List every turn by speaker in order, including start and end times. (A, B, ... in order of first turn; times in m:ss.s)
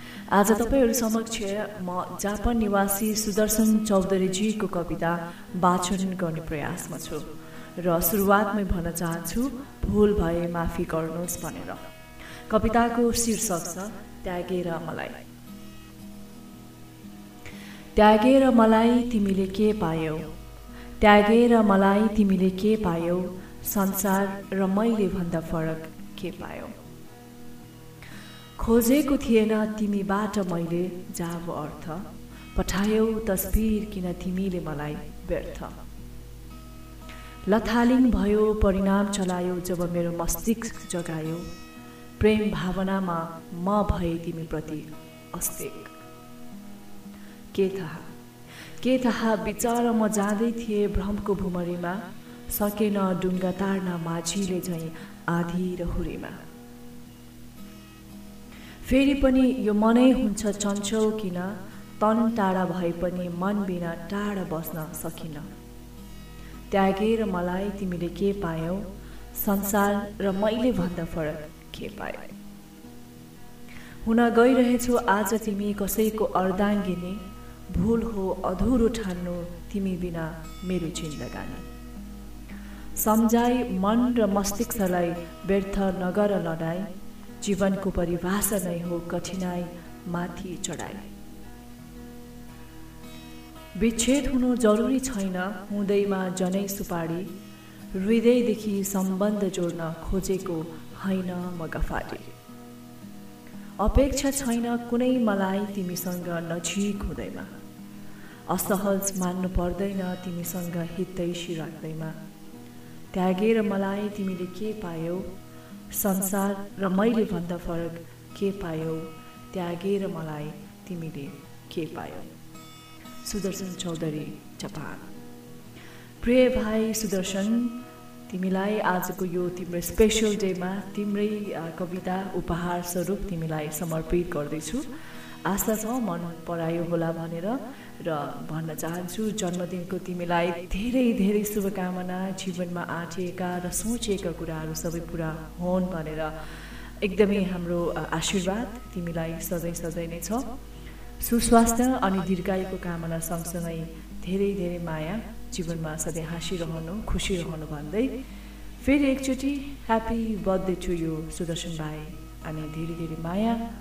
0:00.3-0:11.9 A
0:12.5-0:15.2 A
0:17.9-0:20.3 A
0:21.0-0:26.8 A
0:28.6-0:35.8 A
0:37.4-0:41.5 A
0:42.2-0:45.9 A
0:47.5-0:48.1 A
0:48.8-0:56.4 A
0:58.8-1:05.5 A
1:06.7-1:12.3 A
1:14.0-1:21.7 A
1:23.0-1:31.1 A
1:33.7-1:37.3 A
1:37.9-1:42.3 A
1:43.8-1:47.5 A
1:48.5-1:52.2 A
1:53.1-1:55.3 A
1:55.9-2:02.3 A
2:03.2-2:05.1 A
2:06.2-2:07.8 A
2:08.3-2:14.9 A
2:15.4-2:26.3 A
2:27.0-2:30.5 A
2:31.2-2:38.2 A
2:38.8-2:43.6 A